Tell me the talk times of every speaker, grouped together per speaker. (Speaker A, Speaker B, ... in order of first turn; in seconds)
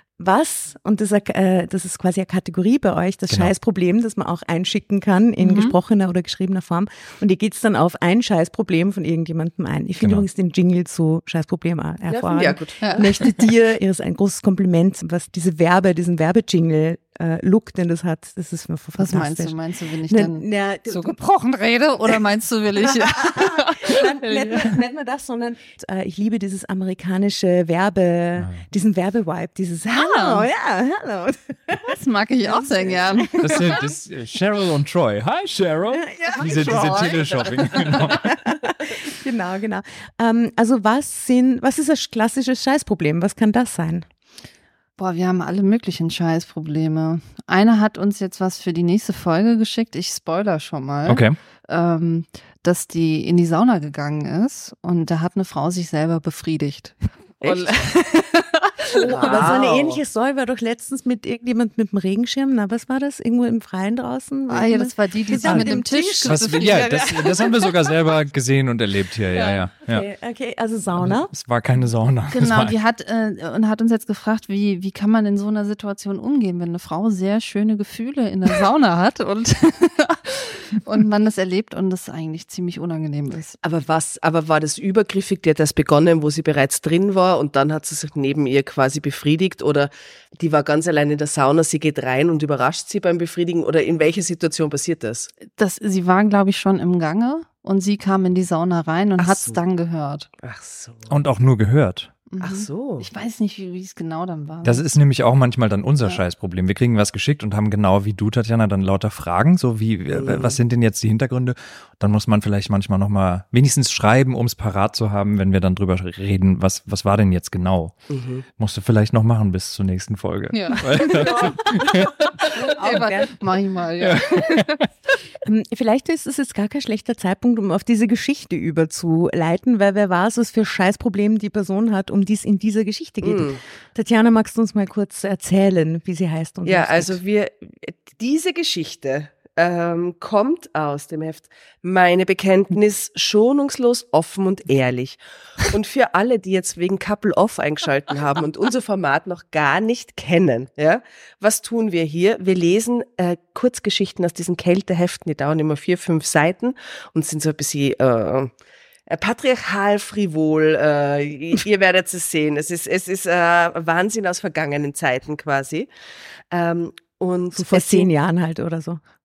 Speaker A: 0.2-19.6, 20.1-21.2, 22.9-33.9, 36.0-44.1, 58.9-66.8, 69.8-71.3, 121.2-123.4, 125.4-137.2, 167.5-169.0
Speaker B: 5.4-5.8, 12.8-13.1, 19.0-24.8, 29.9-30.5, 31.8-33.8, 45.0-59.6, 64.5-67.9, 72.3-83.5, 95.5-100.3, 102.3-104.8, 120.5-124.8
Speaker C: 10.0-10.3, 28.4-28.6, 33.4-38.4, 51.0-51.4, 65.4-70.1, 71.0-72.8, 101.1-102.1, 104.6-118.0, 118.5-122.2, 124.0-124.9
Speaker D: 12.1-12.8, 36.2-38.3, 57.4-57.9, 58.9-60.0, 83.6-95.3, 99.2-99.6, 100.4-101.1, 102.4-103.1, 110.1-110.6, 118.1-118.5, 133.2-133.6, 136.7-158.5, 159.1-165.9, 166.5-168.1